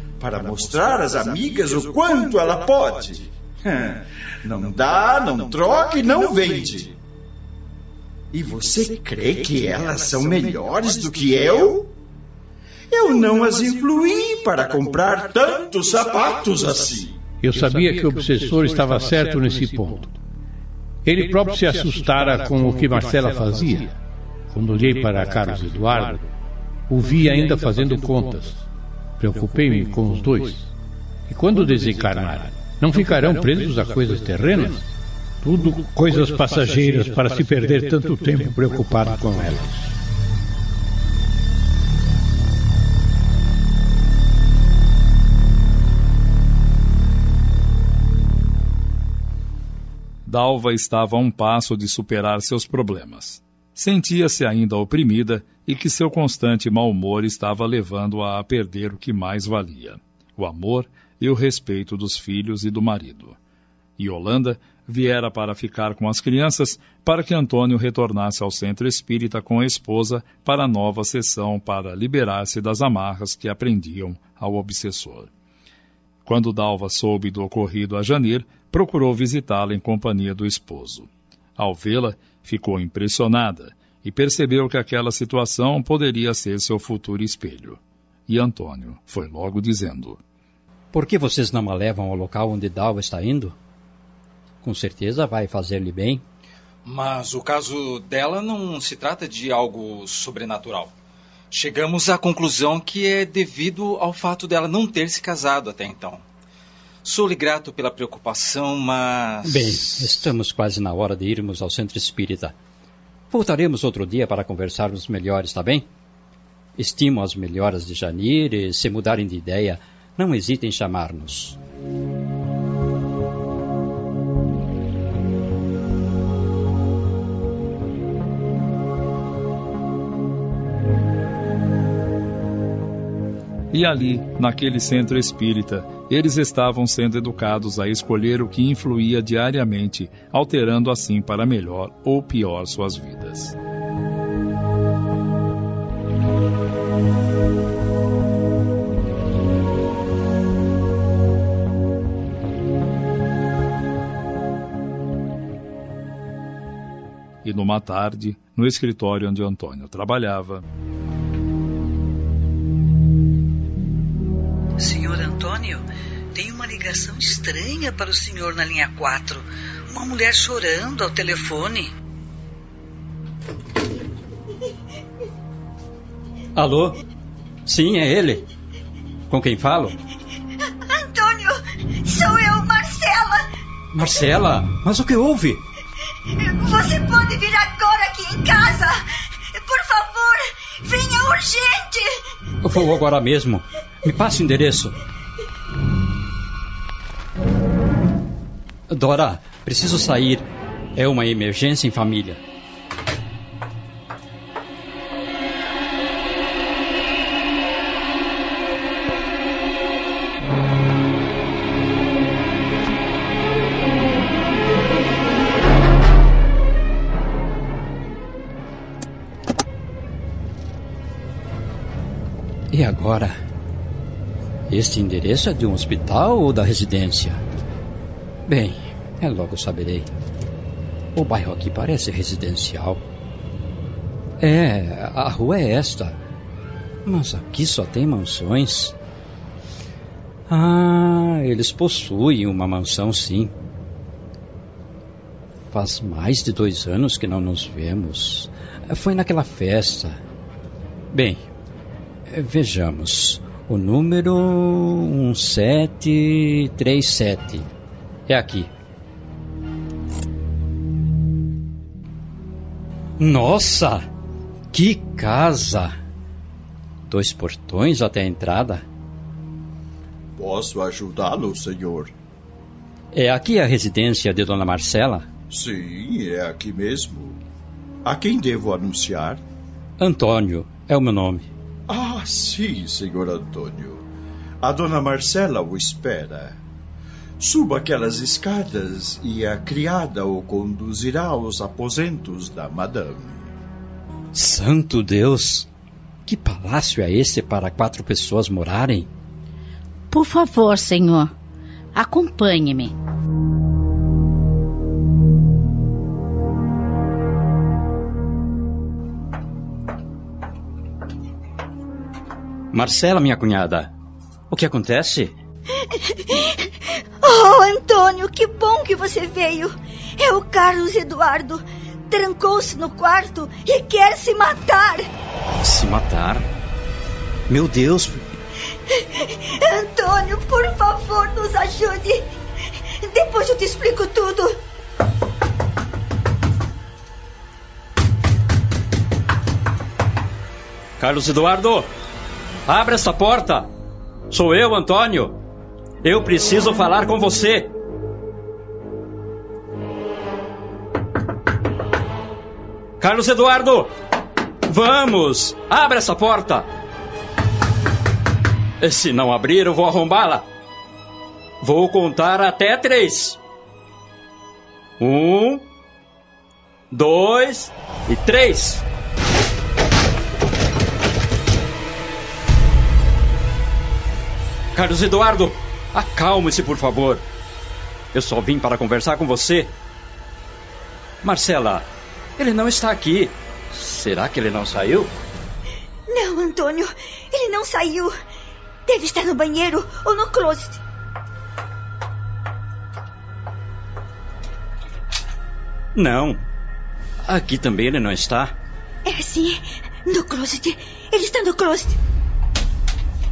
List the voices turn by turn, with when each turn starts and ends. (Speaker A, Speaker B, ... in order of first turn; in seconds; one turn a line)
Speaker A: 0.2-7.0
Speaker A: 8.3-11.9
Speaker A: 12.9-17.2
Speaker B: 17.4-20.2
Speaker B: 21.0-26.3
Speaker B: 26.9-28.7
Speaker B: 29.2-30.7
Speaker B: 31.3-34.9
Speaker B: 35.4-40.0
Speaker C: 50.3-63.4
Speaker C: 64.0-75.3
Speaker C: 76.2-90.2
Speaker D: 90.9-93.5
Speaker D: 94.6-96.2
Speaker E: 96.8-100.9
Speaker E: 101.5-106.2
Speaker E: 107.0-110.3
Speaker D: 109.4-112.5
Speaker D: 113.3-115.9
Speaker D: 116.8-121.6
Speaker C: 133.7-143.6
Speaker C: 157.4-160.6
Speaker F: 164.8-171.9
Speaker D: 176.6-177.0
Speaker D: 177.7-178.4
Speaker D: 179.3-180.0
Speaker G: 180.9-183.4
Speaker D: 183.9-185.7
Speaker G: 186.3-189.0
Speaker G: 189.5-192.2
Speaker D: 192.6-195.0
Speaker D: 198.9-202.4
Speaker D: 222.7-223.4
Speaker D: 224.7-227.4
Speaker D: 228.5-230.1
Speaker D: 231.2-233.0
Speaker D: 234.4-236.2
Speaker D: 237.1-238.9
Speaker D: 240.5-243.5
Speaker D: 245.7-250.2
Speaker D: 251.1-251.4
Speaker D: 252.3-257.7
Speaker D: 258.3-258.7
Speaker D: 263.2-264.1
Speaker D: 264.7-265.9
Speaker D: 267.1-268.8
Speaker A: 270.4-272.1
Speaker D: 273.1-275.3
Speaker A: 275.5-277.4
Speaker A: 278.0-279.4
Speaker D: 280.0-281.5
Speaker A: 281.9-284.1
Speaker A: 284.6-286.6
Speaker A: 287.4-293.5
Speaker D: 294.3-295.7
Speaker D: 296.3-299.1
Speaker H: 300.1-301.3
Speaker H: 301.9-302.9
Speaker D: 312.7-313.9
Speaker D: 314.5-315.3
Speaker G: 316.0-316.7
Speaker G: 317.2-325.1
Speaker D: 325.6-326.5
Speaker D: 327.5-328.2
Speaker G: 328.9-332.2
Speaker G: 333.1-334.6
Speaker D: 341.0-341.9
Speaker D: 342.7-343.7
Speaker D: 344.3-345.4
Speaker D: 346.0-347.7
Speaker D: 353.0-353.9
Speaker D: 354.7-356.7
Speaker D: 358.8-360.5
Speaker D: 361.6-363.4
Speaker D: 365.0-365.7
Speaker D: 366.9-368.9
Speaker D: 374.7-377.2
Speaker D: 378.1-379.7
Speaker D: 381.2-385.1
Speaker G: 386.1-388.1
Speaker G: 388.9-390.8
Speaker D: 395.9-396.4
Speaker D: 397.2-398.6
Speaker G: 399.1-402.0